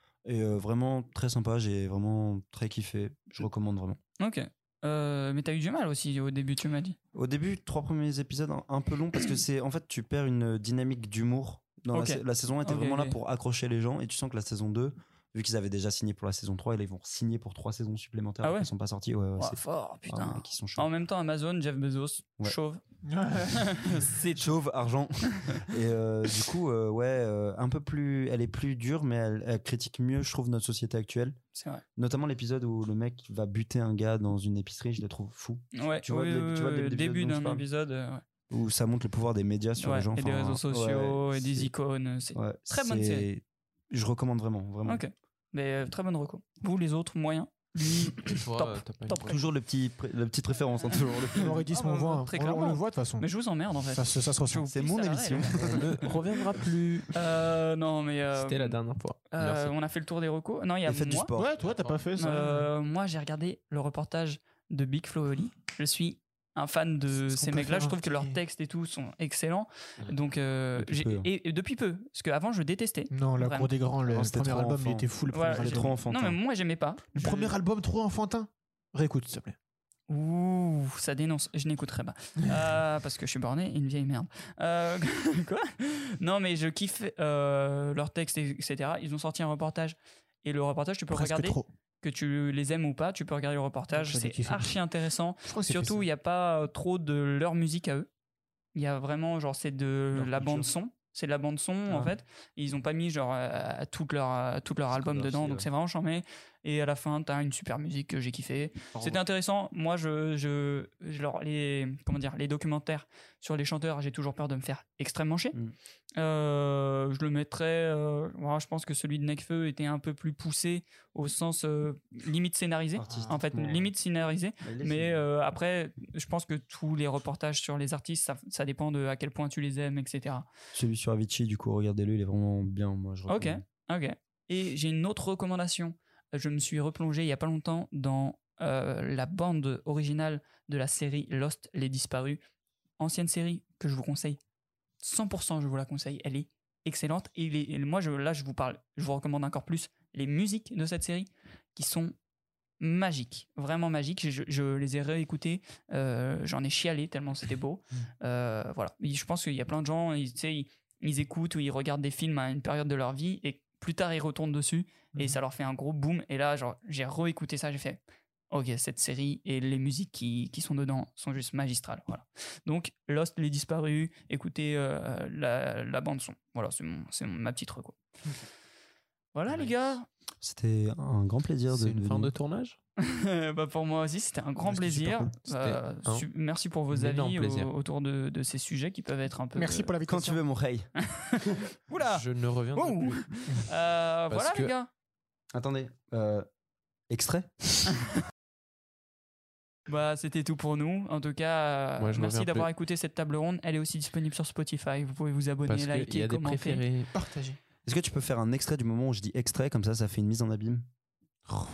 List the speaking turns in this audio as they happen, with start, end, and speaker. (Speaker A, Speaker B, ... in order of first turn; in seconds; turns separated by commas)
Speaker A: 0.2-4.0, Speaker B: 4.2-7.0, Speaker A: 7.1-20.9, Speaker B: 11.9-13.2, Speaker B: 18.4-18.7, Speaker B: 19.4-22.8, Speaker C: 23.1-23.8, Speaker B: 23.5-24.5, Speaker A: 24.4-31.4, Speaker B: 31.5-31.8, Speaker A: 32.0-37.7, Speaker B: 35.8-38.2, Speaker A: 38.5-41.7, Speaker B: 39.8-43.3, Speaker A: 42.3-45.0, Speaker B: 44.9-49.4, Speaker D: 48.4-49.4, Speaker A: 49.3-51.7, Speaker C: 51.3-53.3, Speaker B: 51.7-55.6, Speaker C: 53.9-54.7, Speaker A: 54.7-56.1, Speaker D: 55.6-57.1, Speaker B: 57.1-58.8, Speaker D: 58.4-59.8, Speaker B: 59.3-61.3, Speaker A: 60.8-61.6, Speaker C: 61.4-62.7, Speaker D: 61.6-62.0, Speaker B: 62.2-73.7, Speaker C: 67.3-68.4, Speaker A: 70.8-71.3, Speaker C: 73.1-75.9, Speaker A: 74.1-76.4, Speaker B: 75.3-77.6, Speaker C: 77.1-79.6, Speaker B: 80.1-98.1, Speaker C: 91.1-91.7, Speaker C: 93.9-94.8, Speaker C: 95.5-96.1, Speaker B: 98.8-115.6, Speaker A: 100.1-100.7, Speaker A: 101.9-102.1, Speaker A: 104.9-105.7, Speaker B: 116.2-130.5, Speaker A: 122.9-123.9, Speaker C: 123.1-123.3, Speaker A: 124.6-125.2, Speaker A: 130.7-133.6, Speaker B: 133.3-142.4, Speaker B: 143.0-144.4, Speaker B: 145.0-152.1, Speaker B: 152.8-178.0, Speaker C: 165.1-165.4, Speaker B: 179.3-180.1, Speaker D: 179.5-179.7, Speaker A: 180.4-182.3, Speaker D: 181.7-182.8, Speaker B: 183.0-189.9, Speaker A: 184.7-185.3, Speaker D: 185.5-186.3, Speaker D: 186.9-187.7, Speaker C: 189.6-190.4, Speaker A: 190.1-191.6, Speaker B: 191.1-194.9, Speaker D: 192.0-193.3, Speaker D: 194.3-194.7, Speaker A: 195.5-196.5, Speaker A: 197.1-197.9, Speaker B: 199.9-206.8, Speaker D: 202.0-202.7, Speaker D: 205.7-207.1, Speaker C: 207.1-207.6, Speaker A: 207.8-210.9